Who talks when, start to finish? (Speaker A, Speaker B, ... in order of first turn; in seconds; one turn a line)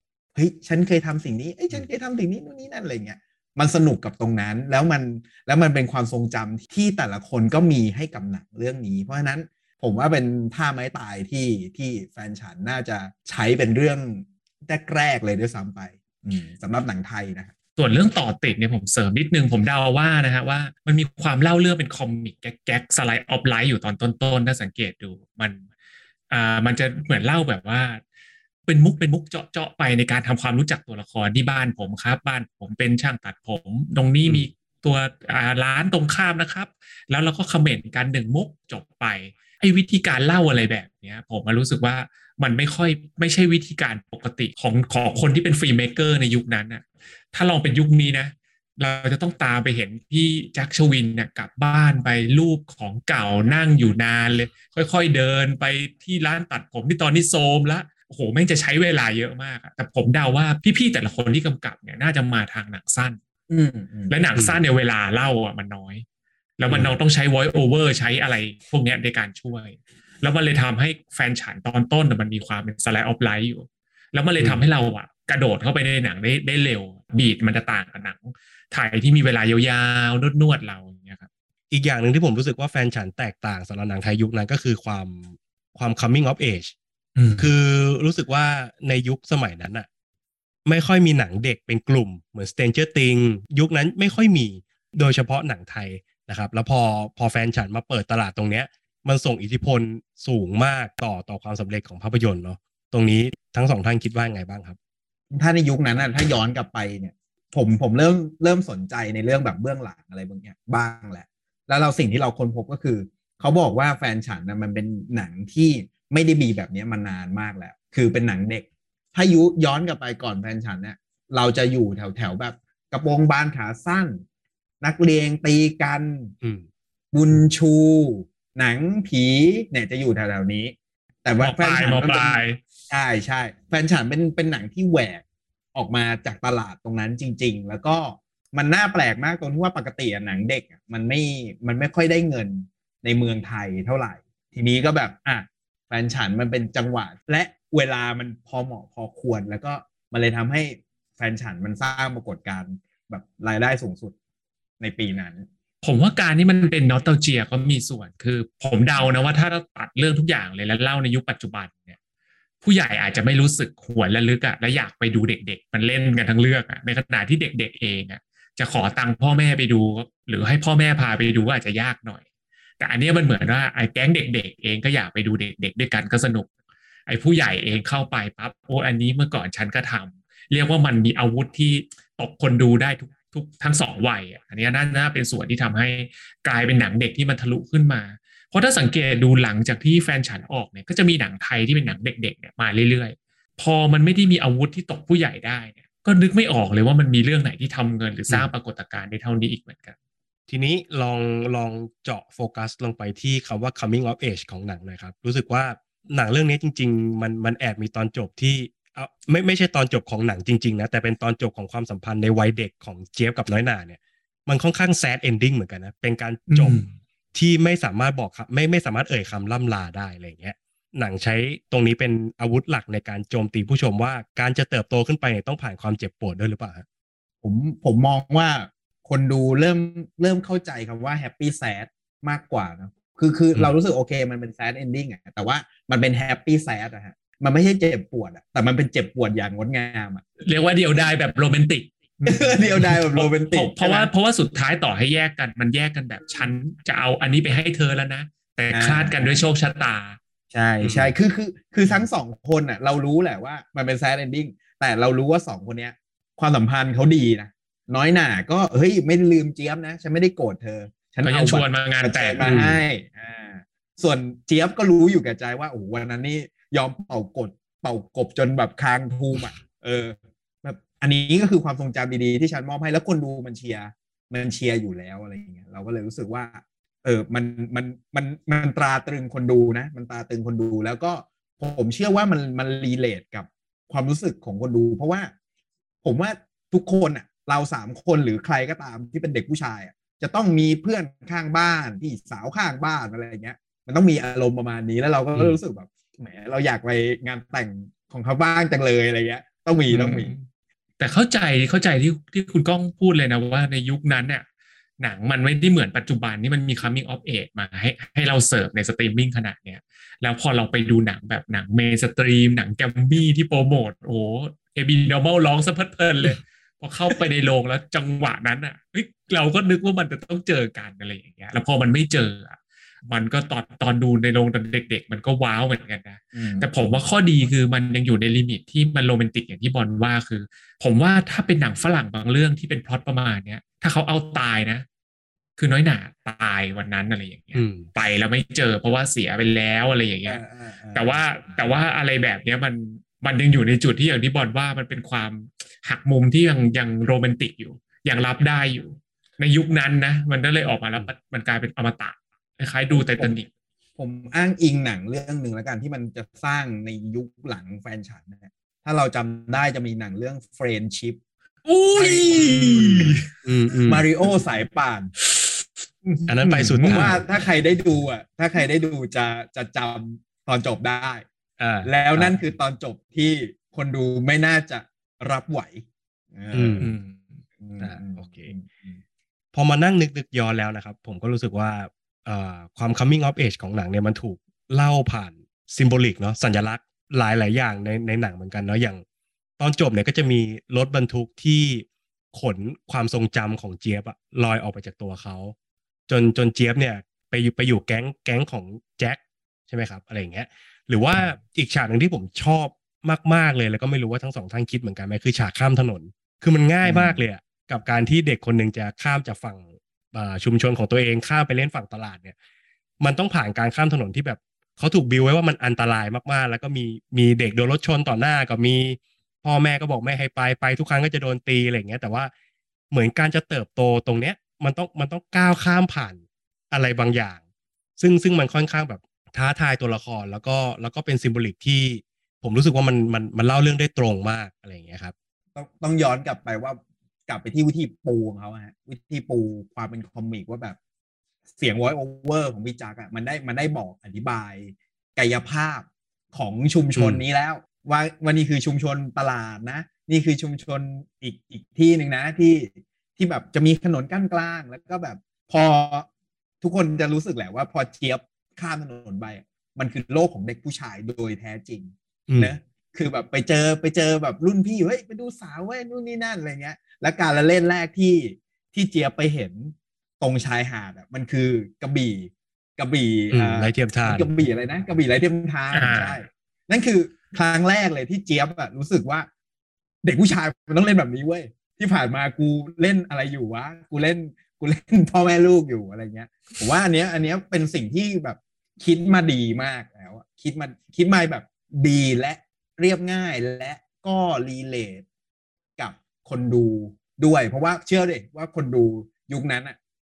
Speaker A: 0.3-17.5
Speaker B: 17.8-25.7
Speaker B: 26.3-28.0
Speaker B: 28.7-63.2
Speaker A: 63.5-64.1
Speaker B: 64.1-66.0
Speaker B: 66.6-81.3
Speaker C: 66.7-66.9
Speaker C: 74.4-74.6
Speaker C: 81.7-86.7
Speaker B: 87.2-87.5
Speaker C: 87.4-89.9
Speaker C: 90.7-104.8
Speaker A: 105.3-124.2
Speaker A: 124.8-126.3
Speaker C: 126.4-126.7
Speaker A: 127.1-135.2
Speaker B: 131.4-132.6
Speaker A: 135.7-154.2
Speaker A: 154.8-155.5
Speaker B: 155.8-162.0
Speaker B: 162.6-172.2
Speaker B: 172.8-176.5
Speaker B: 177.1-199.9
Speaker C: 200.5-226.8
Speaker B: 216.5-216.8
Speaker A: 227.4-240.2
Speaker B: 240.4-250.2
Speaker A: 242.2-244.1
Speaker A: 248.7-249.4
Speaker A: 250.5-285.3
Speaker B: 261.2-262.5
Speaker C: 262.4-262.8
Speaker A: 286.0-300.3
Speaker B: 299.9-300.5
Speaker B: 301.0-304.4
Speaker B: 305.0-334.8
Speaker A: 326.3-326.7
Speaker B: 335.6-340.4
Speaker C: 337.5-337.9
Speaker A: 340.2-341.2
Speaker B: 340.9-353.5
Speaker A: 352.9-353.3
Speaker A: 354.0-361.2
Speaker B: 361.6-363.2
Speaker A: 361.9-363.2
Speaker C: 363.4-364.1
Speaker A: 363.9-365.1
Speaker B: 365.2-367.2
Speaker C: 366.3-367.2
Speaker A: 366.5-371.2
Speaker C: 371.6-372.4
Speaker A: 371.8-377.0
Speaker C: 376.5-376.9
Speaker B: 376.8-377.2
Speaker A: 377.6-379.0
Speaker C: 377.8-378.5
Speaker C: 379.5-389.0
Speaker C: 389.6-395.5
Speaker C: 396.1-412.4
Speaker A: 406.8-407.2
Speaker C: 413.0-422.3
Speaker C: 422.9-427.4
Speaker C: 428.0-435.1
Speaker A: 435.5-440.8
Speaker A: 441.5-456.1
Speaker C: 446.9-447.2
Speaker A: 456.6-479.3
Speaker C: 462.3-462.6
Speaker C: 473.3-474.3
Speaker B: 475.7-476.2
Speaker A: 480.0-495.1
Speaker A: 495.8-499.8